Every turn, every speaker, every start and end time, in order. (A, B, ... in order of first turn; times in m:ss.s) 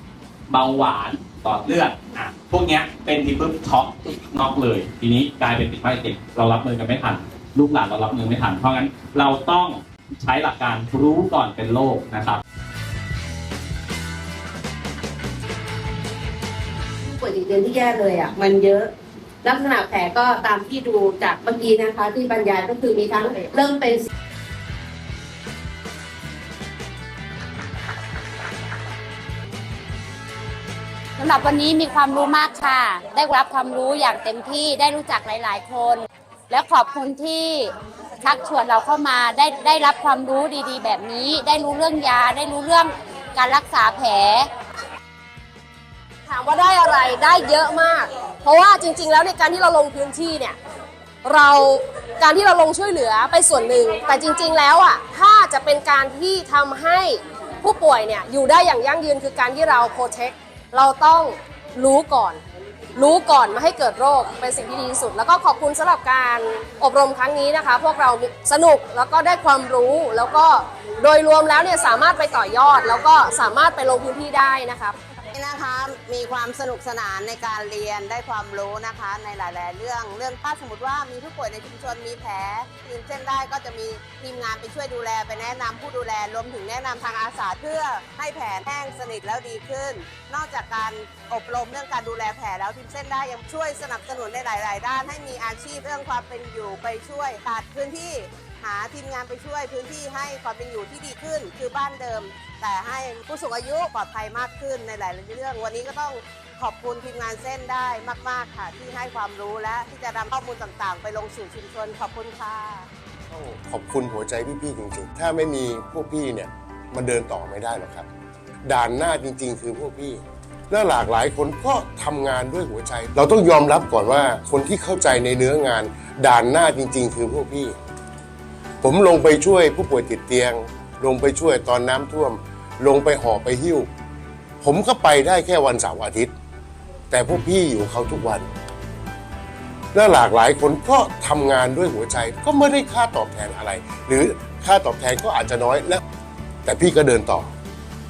0:00.5-0:12.4 A
0:17.0-0:18.9 B
0:19.4-0:23.9 B
0:20.7-0:21.3 C
0:21.9-0:23.4 C
0:31.2-0:44.5 D
0:46.2-0:50.6 E
0:51.2-1:02.4 E
1:03.0-1:15.0 E
1:15.3-1:52.9 C
1:53.3-1:58.1 F
1:58.6-2:07.8 F
2:08.8-2:13.9 F
2:14.6-2:16.3 F
2:17.1-2:18.5 F
2:19.9-2:26.0 F
2:26.6-2:27.5 F